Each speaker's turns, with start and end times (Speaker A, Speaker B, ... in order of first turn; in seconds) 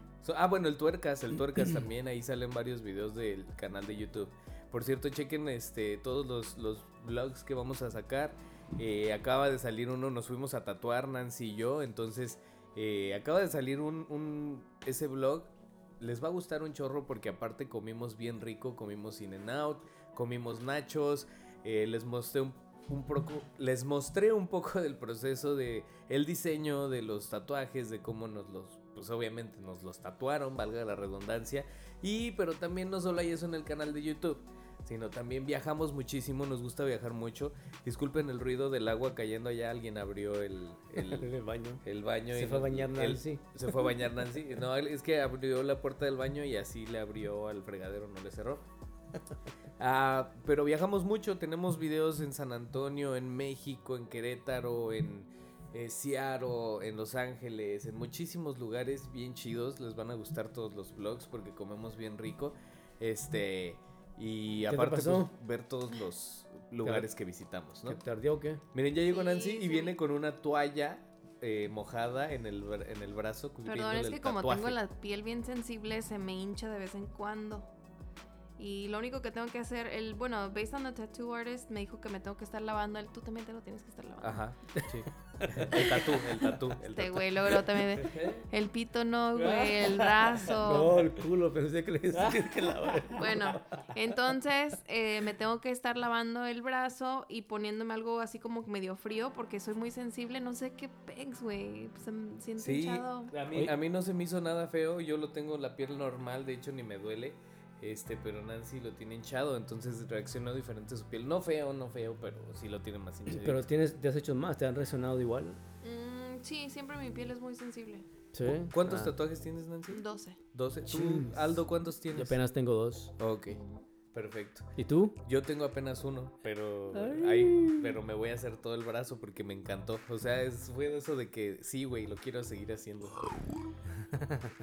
Speaker A: 0.2-41.3, 41.8-48.7, 49.8-68.0, 68.7-74.8, 84.2-88.5, 89.3-91.0, 92.1-93.4, 102.6-113.7, 118.5-122.4, 123.2-123.6, 124.1-124.7, 125.2-133.3
Speaker B: 41.0-43.4, 64.7-65.3, 66.8-67.1, 67.8-68.6, 84.7-86.6, 90.6-93.7, 113.3-115.6, 118.3-119.1, 120.8-123.1, 124.8-125.2, 126.9-128.0, 134.1-134.5
Speaker C: 69.1-70.0, 73.6-77.7, 78.6-84.4, 86.8-90.9, 93.1-103.3, 115.8-118.0, 119.9-120.4